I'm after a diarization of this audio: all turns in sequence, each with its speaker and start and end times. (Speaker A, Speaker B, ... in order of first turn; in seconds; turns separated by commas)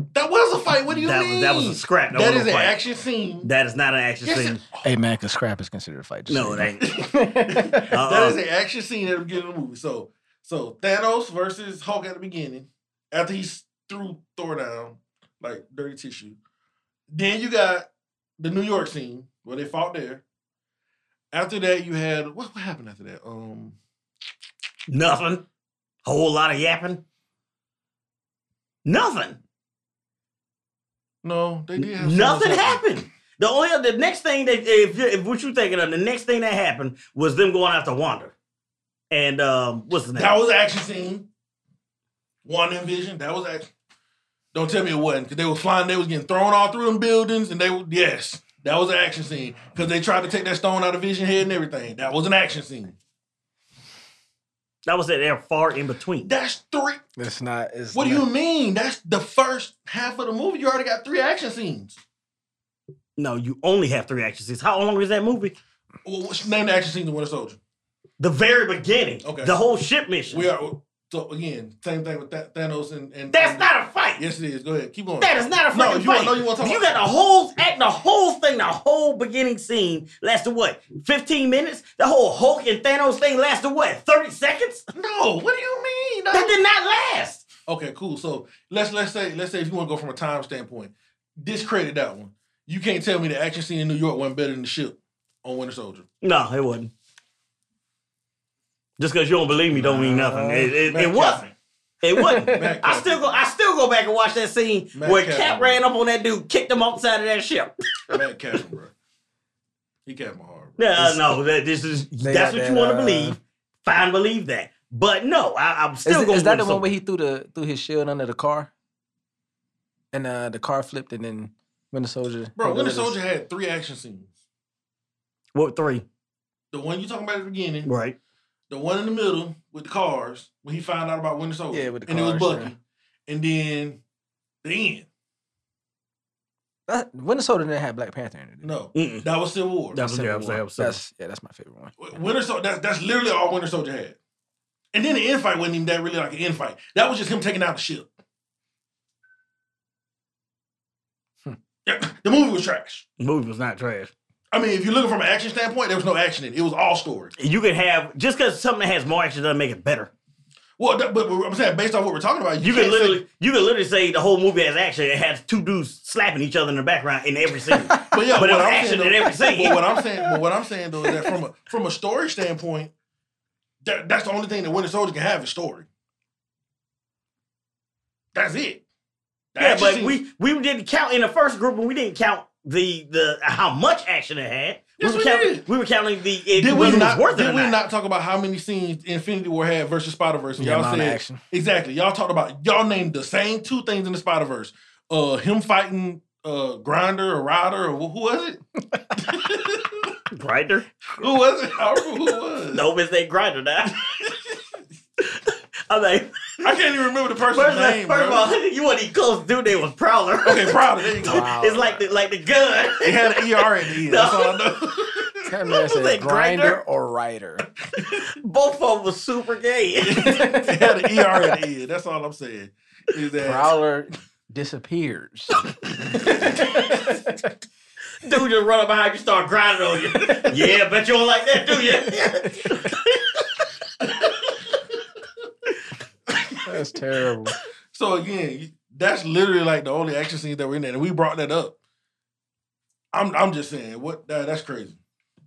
Speaker A: 0.1-3.5, Speaker B: 0.9-2.8, Speaker B: 3.4-4.6, Speaker A: 4.2-5.0, Speaker C: 4.8-7.9, Speaker B: 6.3-6.8, Speaker A: 6.8-16.4, Speaker B: 7.9-8.4, Speaker A: 17.1-20.2, Speaker A: 21.3-23.8, Speaker B: 24.9-25.4, Speaker B: 26.1-27.0, Speaker B: 28.9-29.4, Speaker A: 31.2-32.9, Speaker B: 31.8-38.4, Speaker B: 39.1-40.4, Speaker A: 40.2-41.3, Speaker A: 42.5-43.7, Speaker A: 44.5-53.0, Speaker B: 54.9-56.3, Speaker A: 56.3-57.0, Speaker C: 57.2-58.3, Speaker A: 57.9-62.0, Speaker B: 63.2-65.5, Speaker A: 66.0-67.6, Speaker B: 68.2-70.5, Speaker A: 69.2-69.6, Speaker A: 70.3-77.0, Speaker B: 73.3-74.2, Speaker B: 75.2-84.9, Speaker A: 84.9-86.6, Speaker B: 86.3-87.4, Speaker A: 87.7-96.1, Speaker B: 96.2-96.9, Speaker B: 99.0-101.4, Speaker C: 99.8-100.8, Speaker A: 99.8-101.5, Speaker B: 102.0-108.2, Speaker C: 102.1-102.8, Speaker A: 102.4-103.4, Speaker A: 104.9-105.8, Speaker A: 108.1-108.9, Speaker A: 110.1-110.8, Speaker B: 110.8-116.9, Speaker C: 111.0-111.3, Speaker C: 112.2-113.4, Speaker C: 116.0-118.7, Speaker C: 120.1-123.2, Speaker A: 122.6-124.3, Speaker B: 125.5-126.1, Speaker A: 126.7-127.9, Speaker B: 127.8-128.2, Speaker A: 128.7-134.0, Speaker C: 131.7-132.7, Speaker A: 134.6-135.1, Speaker C: 136.9-138.7, Speaker A: 138.6-140.6, Speaker B: 138.9-139.3, Speaker B: 139.9-141.0, Speaker C: 140.8-141.9, Speaker A: 142.0-144.2, Speaker A: 144.9-148.1, Speaker A: 151.8-153.1, Speaker B: 153.2-154.1, Speaker A: 154.5-157.3, Speaker B: 157.4-160.1, Speaker A: 160.8-163.2, Speaker B: 162.6-169.8, Speaker C: 167.7-168.2, Speaker A: 168.0-172.9, Speaker C: 169.6-170.4, Speaker C: 171.0-171.4, Speaker A: 173.8-175.9, Speaker A: 178.3-178.8, Speaker A: 179.5-180.2, Speaker B: 179.6-187.8, Speaker A: 185.0-185.7, Speaker A: 186.6-198.6, Speaker C: 186.8-187.0, Speaker C: 190.6-191.4, Speaker A: 199.1-200.2, Speaker B: 200.3-201.0, Speaker A: 201.2-202.9, Speaker B: 202.7-204.1, Speaker A: 204.0-204.6, Speaker B: 205.2-206.7, Speaker A: 206.6-208.5, Speaker B: 207.5-214.6, Speaker A: 210.4-211.9, Speaker C: 211.2-211.9, Speaker A: 213.0-215.5, Speaker C: 215.5-217.7, Speaker B: 215.7-216.8, Speaker B: 218.0-220.5, Speaker A: 220.0-223.8, Speaker C: 220.2-220.9, Speaker C: 223.4-227.5, Speaker A: 226.1-227.2, Speaker B: 228.2-233.4, Speaker C: 232.1-232.9, Speaker A: 234.0-234.8, Speaker A: 236.3-236.8, Speaker C: 236.6-237.6, Speaker A: 237.9-241.8, Speaker A: 243.1-245.0